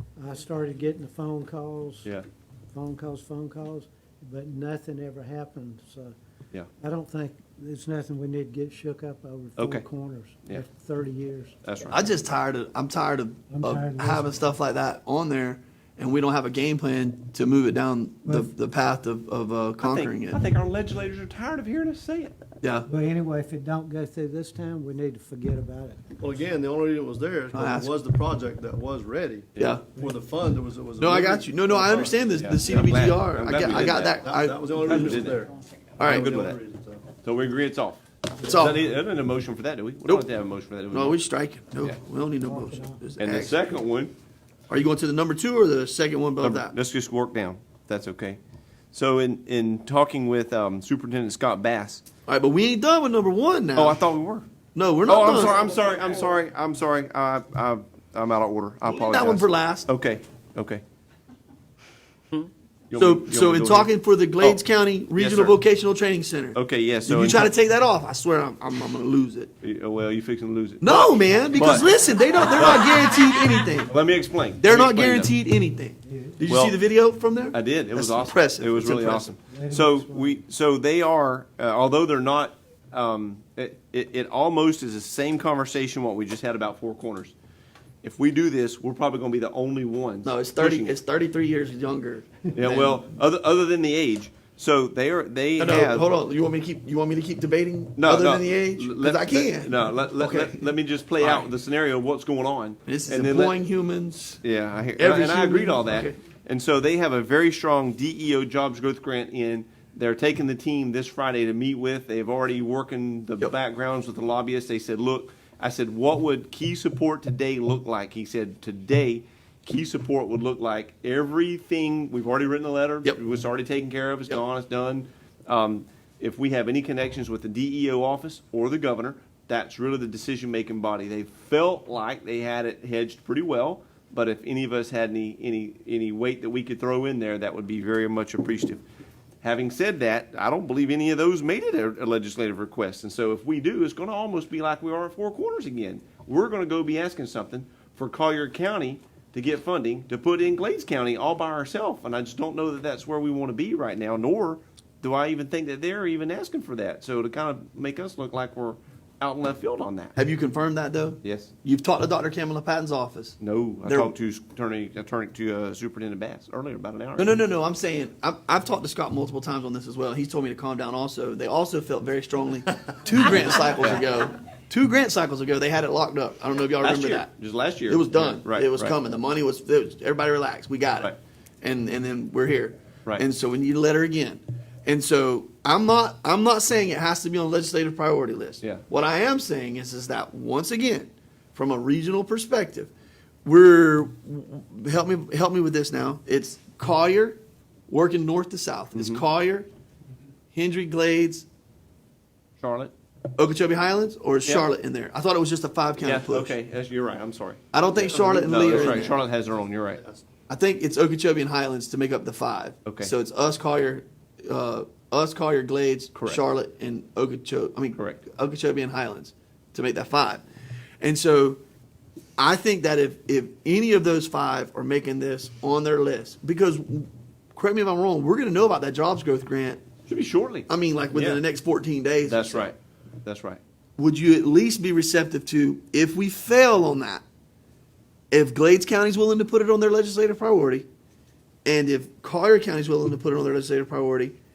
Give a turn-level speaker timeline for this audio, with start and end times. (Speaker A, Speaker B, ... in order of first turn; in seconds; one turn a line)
Speaker A: 0.2-2.1
Speaker A: 2.7-6.1
Speaker A: 6.8-11.6
Speaker B: 9.6-9.9
Speaker B: 11.6-12.0
Speaker C: 11.9-20.4
Speaker A: 13.5-14.5
Speaker A: 18.2-18.5
Speaker B: 19.8-22.3
Speaker C: 22.6-22.9
Speaker A: 22.9-26.0
Speaker D: 26.2-32.3
Speaker C: 27.5-28.0
Speaker C: 29.6-29.9
Speaker C: 31.0-35.3
Speaker B: 32.4-34.3
Speaker D: 33.6-35.5
Speaker B: 34.8-35.5
Speaker B: 36.0-36.6
Speaker C: 36.0-36.3
Speaker D: 36.0-37.0
Speaker B: 37.2-41.2
Speaker C: 38.4-38.8
Speaker C: 40.9-43.7
Speaker A: 42.4-43.0
Speaker B: 43.2-44.1
Speaker C: 44.7-46.8
Speaker B: 46.4-48.4
Speaker B: 48.9-52.0
Speaker C: 52.3-54.0
Speaker B: 53.8-54.5
Speaker C: 54.8-55.7
Speaker B: 55.1-60.8
Speaker C: 58.9-59.9
Speaker B: 62.9-64.6
Speaker C: 63.0-69.5
Speaker B: 65.2-65.6
Speaker B: 66.5-67.5
Speaker B: 69.6-73.0
Speaker C: 70.8-73.9
Speaker B: 73.9-75.4
Speaker C: 74.6-79.4
Speaker A: 76.0-76.5
Speaker B: 76.5-76.8
Speaker B: 77.5-87.3
Speaker A: 79.5-80.4
Speaker B: 88.0-91.0
Speaker C: 90.2-93.0
Speaker B: 92.5-96.1
Speaker C: 95.6-101.5
Speaker B: 98.0-103.6
Speaker C: 102.9-104.4
Speaker B: 104.4-138.8
Speaker C: 105.0-106.2
Speaker B: 139.4-160.2
Speaker C: 160.2-164.1
Speaker B: 161.2-161.5
Speaker B: 163.4-167.4
Speaker C: 167.2-177.3
Speaker B: 173.8-174.0
Speaker B: 176.8-178.9
Speaker C: 177.9-192.9
Speaker C: 193.4-199.7
Speaker B: 198.9-199.2
Speaker C: 200.5-201.5
Speaker B: 202.6-202.9
Speaker C: 203.4-206.6
Speaker B: 206.0-210.0
Speaker C: 207.7-209.2
Speaker D: 208.0-209.2
Speaker D: 209.9-210.2
Speaker C: 210.5-220.4
Speaker B: 212.9-213.1
Speaker B: 216.2-216.4
Speaker C: 221.0-221.6
Speaker C: 222.4-229.8
Speaker B: 230.1-231.4
Speaker C: 230.7-232.7
Speaker B: 232.2-233.6
Speaker C: 234.0-237.2
Speaker C: 238.3-240.9
Speaker C: 241.7-244.3